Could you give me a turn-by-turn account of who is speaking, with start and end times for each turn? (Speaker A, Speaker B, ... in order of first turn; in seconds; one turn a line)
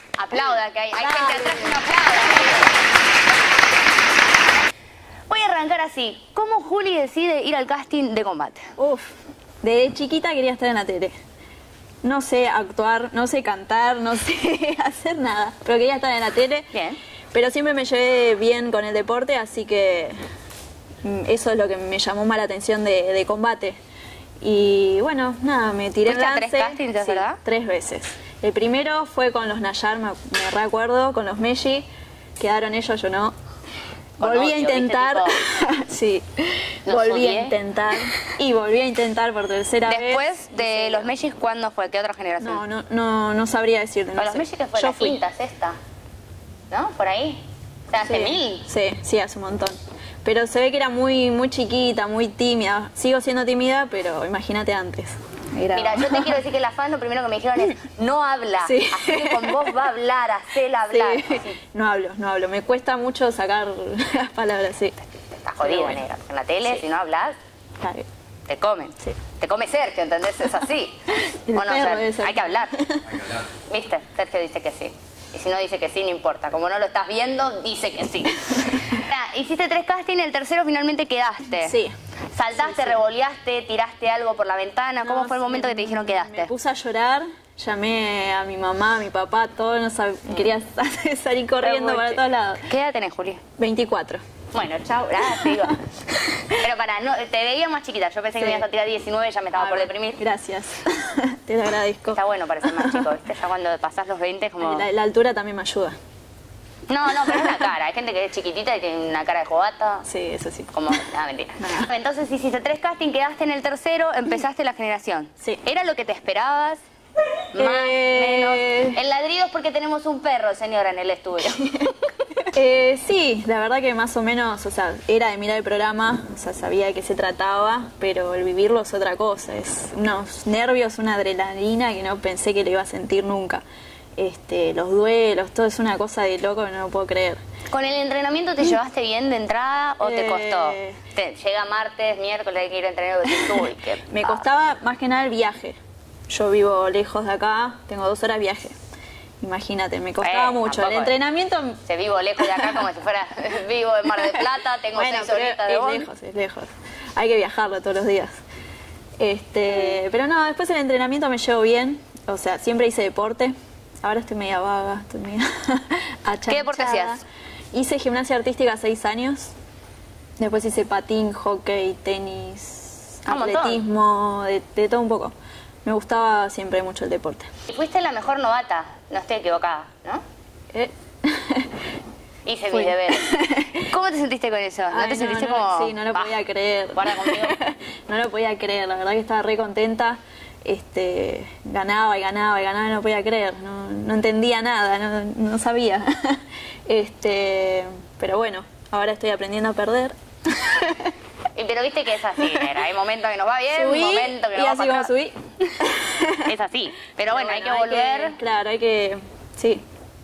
Speaker A: 0.2-2.8
Speaker B: 1.0-1.8
Speaker A: 5.3-8.7
Speaker B: 8.8-11.2
Speaker B: 12.0-16.7
Speaker A: 16.7-17.0
Speaker B: 17.3-20.1
Speaker B: 21.0-23.8
Speaker B: 24.4-33.3
Speaker A: 26.1-27.4
Speaker A: 34.2-35.4
Speaker B: 34.2-41.1
Speaker A: 36.9-37.6
Speaker A: 39.9-42.6
Speaker B: 42.4-45.2
Speaker A: 44.2-45.8
Speaker A: 46.7-48.6
Speaker B: 48.0-56.4
Speaker A: 55.7-61.5
Speaker B: 58.6-59.8
Speaker B: 60.9-65.0
Speaker A: 65.1-67.4
Speaker B: 65.6-66.0
Speaker B: 67.8-68.1
Speaker A: 68.5-71.0
Speaker B: 71.2-73.2
Speaker A: 71.5-72.8
Speaker A: 73.7-81.8
Speaker B: 81.6-82.0
Speaker A: 82.3-86.5
Speaker B: 82.6-83.0
Speaker B: 85.0-92.7
Speaker A: 91.6-93.4
Speaker B: 93.6-94.2
Speaker A: 94.5-95.8
Speaker B: 95.3-96.6
Speaker A: 96.5-100.2
Speaker B: 98.4-98.7
Speaker B: 99.6-103.1
Speaker A: 102.1-104.9
Speaker B: 104.6-106.0
Speaker A: 106.9-110.1
Speaker B: 107.3-107.6
Speaker B: 110.1-111.0
Speaker A: 110.7-116.8
Speaker B: 111.6-111.9
Speaker A: 117.5-121.8
Speaker B: 117.6-119.0
Speaker B: 122.5-133.6
Speaker B: 134.2-137.4
Speaker A: 137.7-144.4
Speaker B: 140.0-141.0
Speaker B: 144.1-145.8
Speaker B: 146.3-148.8
Speaker B: 149.4-151.8
Speaker A: 150.2-151.1
Speaker A: 151.9-156.1
Speaker B: 152.4-152.8
Speaker B: 154.9-158.4
Speaker B: 159.2-169.5
Speaker A: 166.5-167.2
Speaker B: 170.4-177.5
Speaker A: 173.3-173.8
Speaker A: 177.7-180.2
Speaker B: 180.7-181.8
Speaker A: 182.5-186.4
Speaker B: 182.7-183.9
Speaker B: 184.9-201.1
Speaker A: 186.9-187.6
Speaker A: 201.6-205.1
Speaker B: 203.7-206.5
Speaker A: 206.4-208.4
Speaker B: 207.3-209.8